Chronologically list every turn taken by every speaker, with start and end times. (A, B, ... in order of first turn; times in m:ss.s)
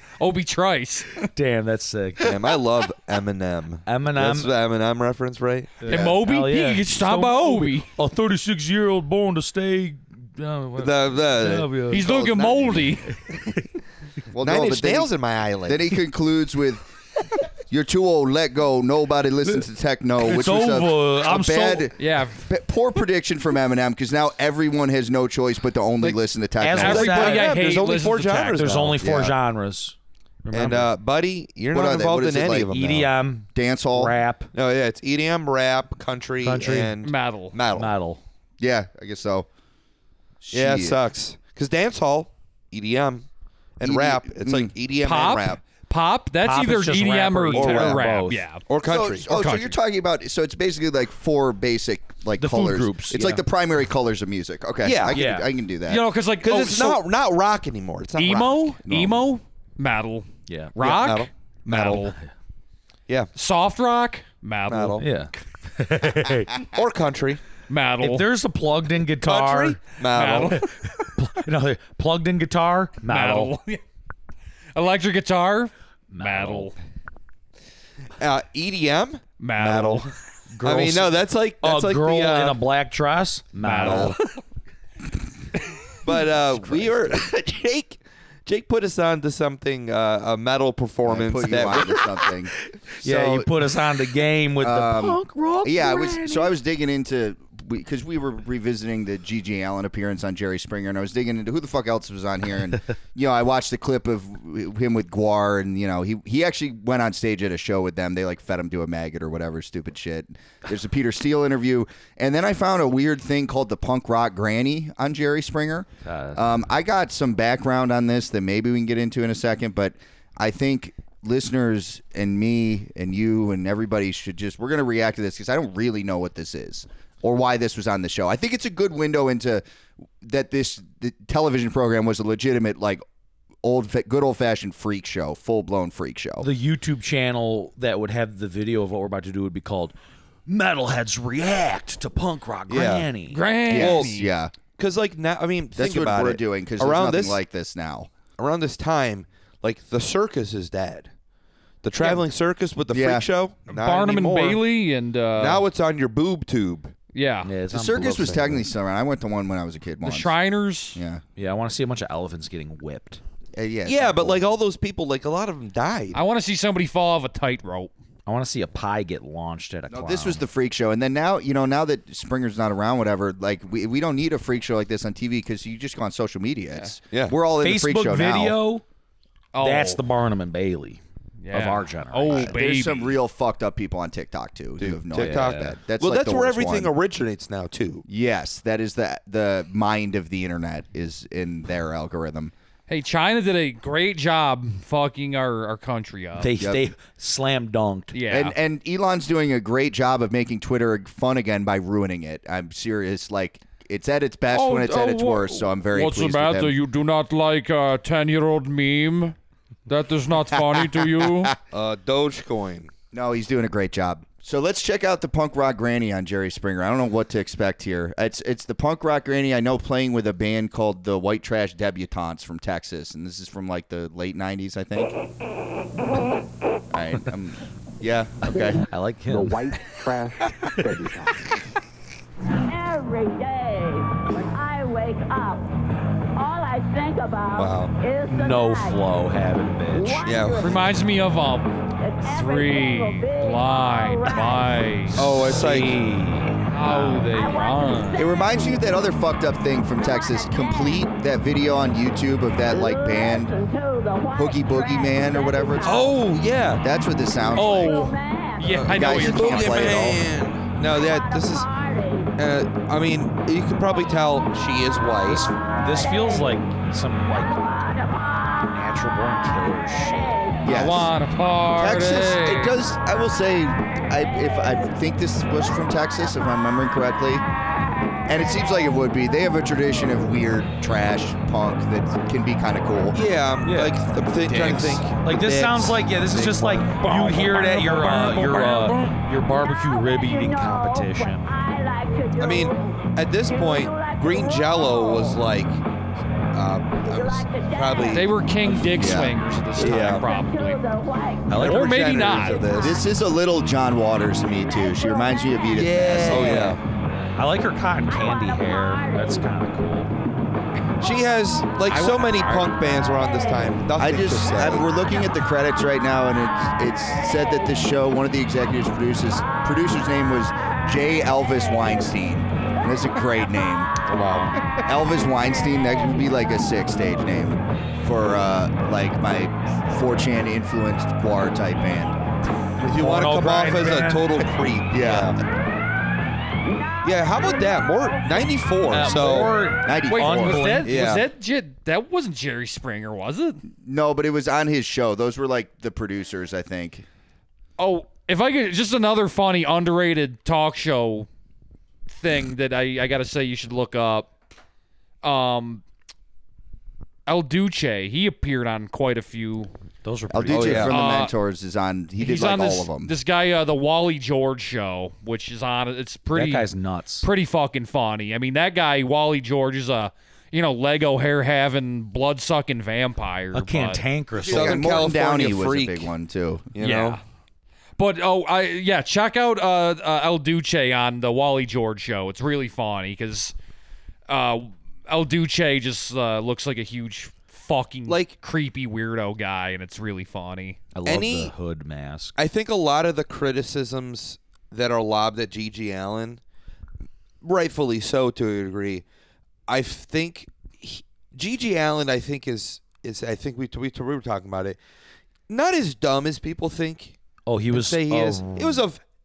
0:00.2-0:01.2 A
0:01.3-0:02.3 B
0:02.2-0:05.8 C
0:03.8-0:04.5 B
0:05.8-0:12.1 B
0:05.9-0:07.9 A
0:05.9-0:06.2 D
0:10.8-0:12.8 C
0:11.9-0:13.1 A
0:14.3-0:15.1 D
0:14.4-0:16.0 C
0:15.6-0:27.1 D
0:20.2-0:21.9 B
0:22.0-0:22.4 A
0:26.6-0:27.5 B
0:26.8-0:28.6 A
0:26.8-0:29.1 C
0:28.5-0:30.9 B
0:29.0-0:29.3 D
0:30.5-0:33.1 C
0:31.7-0:32.8 D
0:32.7-0:34.5 B
0:33.5-0:34.1 D
0:34.5-0:37.9 C
0:36.4-0:37.0 B
0:37.0-0:37.6 A
0:37.7-0:38.2 B
0:38.6-0:39.5 D
0:40.4-0:41.0 D
0:40.5-0:43.2 C
0:43.8-0:45.6 C
0:43.8-0:44.7 D
0:45.0-0:48.6 A
0:46.4-0:48.4 B
0:47.5-0:48.0 C
0:48.7-0:49.3 C
0:48.8-0:56.0 D
0:49.3-0:49.8 A
0:52.4-0:53.4 B
0:54.8-0:55.2 C
0:55.1-0:55.5 B
0:55.9-0:57.0 A
0:56.4-0:58.8 C
0:58.2-1:02.2 A
0:58.9-0:59.1 D
1:00.5-1:00.8 B
1:00.8-1:02.1 C
1:03.3-1:05.1 A
1:04.7-1:05.0 C
1:05.0-1:06.6 B
1:06.7-1:07.4 C
1:07.7-1:08.2 A
1:08.0-1:09.8 B
1:09.2-1:10.6 C
1:10.0-1:10.7 A
1:10.5-1:13.5 B
1:13.1-1:13.8 A
1:14.7-1:16.7 A
1:16.1-1:16.7 B
1:18.2-1:20.1 C
1:19.4-1:20.1 A
1:20.5-1:24.2 B
1:20.6-1:22.6 C
1:23.6-1:24.4 A
1:23.8-1:24.1 C
1:26.0-1:32.1 C
1:31.0-1:33.5 D
1:33.0-1:36.5 B
1:34.6-2:09.6 D
1:56.0-1:56.4 B
2:10.2-2:13.0 D
2:13.6-2:16.5 D
2:16.4-2:19.9 B
2:20.5-2:23.4 B
2:22.7-2:23.1 C
2:23.3-2:24.3 A
2:23.7-2:24.5 D
2:23.7-2:24.1 C
2:24.8-2:27.4 C
2:25.8-2:28.1 D
2:28.4-2:31.1 C
2:31.8-2:34.6 C
2:32.9-2:33.3 D
2:33.7-2:35.6 A
2:35.3-2:36.9 C
2:37.1-2:37.5 A
2:37.4-2:38.6 B
2:37.7-2:40.3 D
2:38.0-2:38.3 C
2:40.0-2:41.0 A
2:40.9-2:41.2 D
2:41.4-2:43.2 B
2:43.5-2:44.4 D
2:43.8-2:46.2 C
2:46.1-2:47.9 A
2:48.2-2:50.4 B
2:49.9-2:58.6 D
2:57.1-2:57.4 C
2:57.6-2:58.8 B
2:59.5-3:00.0 A
2:59.6-3:02.6 B
3:01.4-3:03.1 A
3:02.3-3:06.9 D
3:04.8-3:08.0 C
3:05.2-3:05.7 B
3:08.1-3:12.5 D
3:12.9-3:16.5 A
3:16.4-3:18.2 B
3:16.6-3:16.8 D
3:18.1-3:18.5 A
3:18.3-3:26.8 D
3:24.5-3:29.4 A
3:29.9-3:31.5 A
3:30.6-3:31.5 D
3:31.7-3:32.9 C
3:33.1-3:45.2 D
3:46.9-3:48.8 D
3:48.9-3:49.8 B
3:49.3-3:51.3 E
3:52.6-3:55.7 F
3:56.4-3:59.0 F
3:57.5-3:57.9 C
3:58.2-4:00.3 B
3:59.9-4:01.0 F
4:00.2-4:00.7 C
4:00.6-4:05.5 A
4:02.0-4:04.8 F
4:05.1-4:07.3 B
4:05.1-4:06.1 C
4:06.7-4:08.3 A
4:07.3-4:08.9 F
4:08.2-4:13.5 D
4:10.0-4:11.1 F
4:12.6-4:16.2 F
4:14.3-4:16.2 D
4:15.8-4:16.8 C
4:16.8-4:18.1 D
4:17.5-4:20.1 A
4:17.6-4:18.8 F
4:18.6-4:21.7 C
4:18.9-4:20.2 D
4:20.8-4:22.3 F
4:22.4-4:25.5 C
4:25.2-4:27.6 B
4:25.8-4:26.6 F
4:27.5-4:28.7 F
4:28.6-4:30.4 B
4:29.9-4:30.6 F
4:30.6-4:31.1 D
4:30.6-4:32.7 A
4:31.7-4:37.4 D
4:38.3-4:43.2 D
4:43.1-4:47.2 C
4:43.6-4:51.5 B
4:47.0-4:49.2 A
4:49.6-4:55.4 F
4:52.4-4:55.8 C
4:56.5-4:58.9 C
4:57.0-4:58.3 F
4:58.0-5:00.8 A
4:58.9-4:59.4 D
4:59.7-5:00.3 C
4:59.8-5:01.7 F
5:01.5-5:02.7 A
5:01.5-5:03.0 C
5:02.3-5:03.2 F
5:02.8-5:06.7 D
5:04.5-5:05.9 F
5:05.7-5:06.8 B
5:05.8-5:06.8 C
5:07.3-5:10.1 B
5:08.1-5:09.5 F
5:11.0-5:15.0 C
5:11.9-5:12.8 A
5:13.0-5:13.6 F
5:14.0-5:24.0 D
5:24.1-5:24.6 B
5:24.1-5:24.8 C
5:24.8-5:32.2 D
5:32.8-5:34.3 B
5:32.8-5:35.4 C
5:34.9-5:35.4 D
5:36.8-5:38.4 F
5:37.0-5:39.6 C
5:38.9-5:41.0 B
5:39.8-5:40.7 D
5:40.1-5:43.6 A
5:40.8-5:41.2 C
5:43.8-5:47.0 D
5:47.8-5:51.3 A
5:52.1-5:54.3 A
5:55.2-5:55.8 A
5:57.2-5:59.7 A
6:00.0-6:00.9 B
6:00.3-6:03.1 D
6:00.5-6:00.9 C
6:00.9-6:01.3 A
6:02.2-6:06.7 A
6:06.3-6:07.3 B
6:07.2-6:14.0 A
6:13.5-6:14.8 B
6:14.4-6:16.7 D
6:14.4-6:16.1 C
6:16.7-6:17.2 C
6:16.8-6:17.2 A
6:18.0-6:23.5 A
6:24.3-6:30.8 A
6:28.1-6:28.3 C
6:30.9-6:32.3 B
6:31.0-6:31.5 C
6:32.4-6:36.4 C
6:37.4-6:39.0 C
6:39.7-6:44.8 C
6:45.5-6:47.2 C
6:47.4-6:48.8 B
6:47.7-6:49.0 C